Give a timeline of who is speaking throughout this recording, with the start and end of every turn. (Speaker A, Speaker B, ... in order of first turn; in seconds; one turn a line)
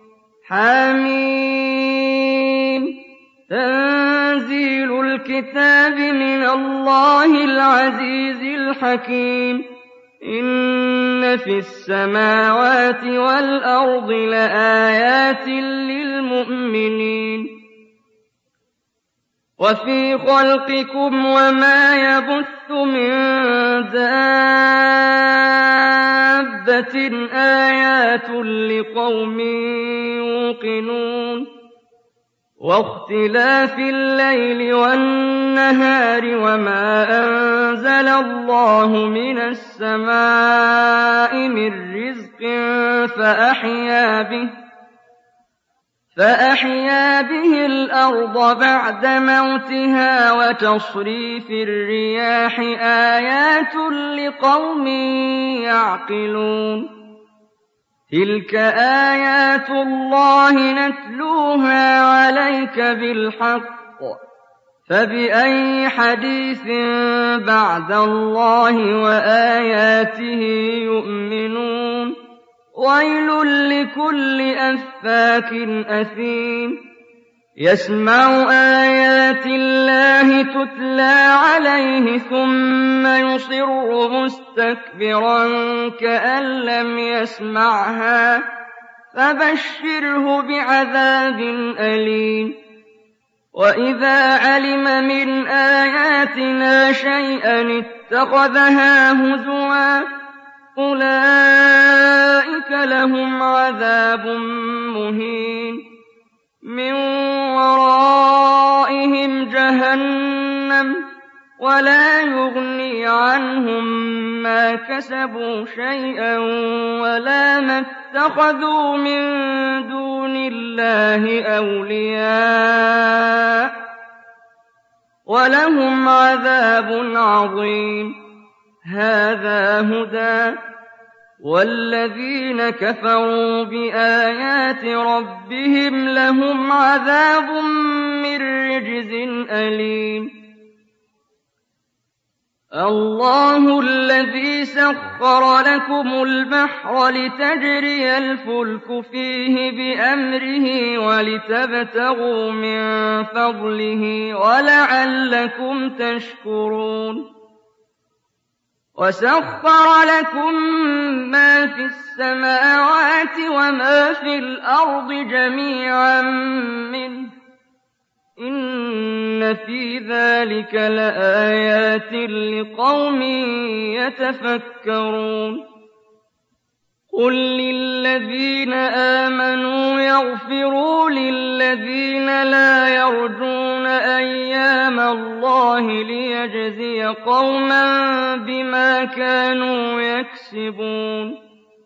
Speaker A: 0.5-9.7
Speaker A: 10.2-17.6
Speaker A: 19.6-31.5
Speaker A: 32.6-44.5
Speaker A: 46.1-57.0
Speaker A: 58.1-64.2
Speaker A: 64.9-72.2
Speaker A: 72.8-76.8
Speaker A: 77.6-88.5
Speaker A: 89.1-92.6
Speaker A: 93.5-100.1
Speaker A: 100.8-105.8
Speaker A: 106.6-111.1
Speaker A: 111.6-123.8
Speaker A: 125.3-128.2
Speaker A: 128.8-130.6
Speaker A: 131.4-140.5
Speaker A: 142.7-157.3
Speaker A: 159.0-167.3
Speaker A: 168.4-175.7
Speaker A: 177.1-191.4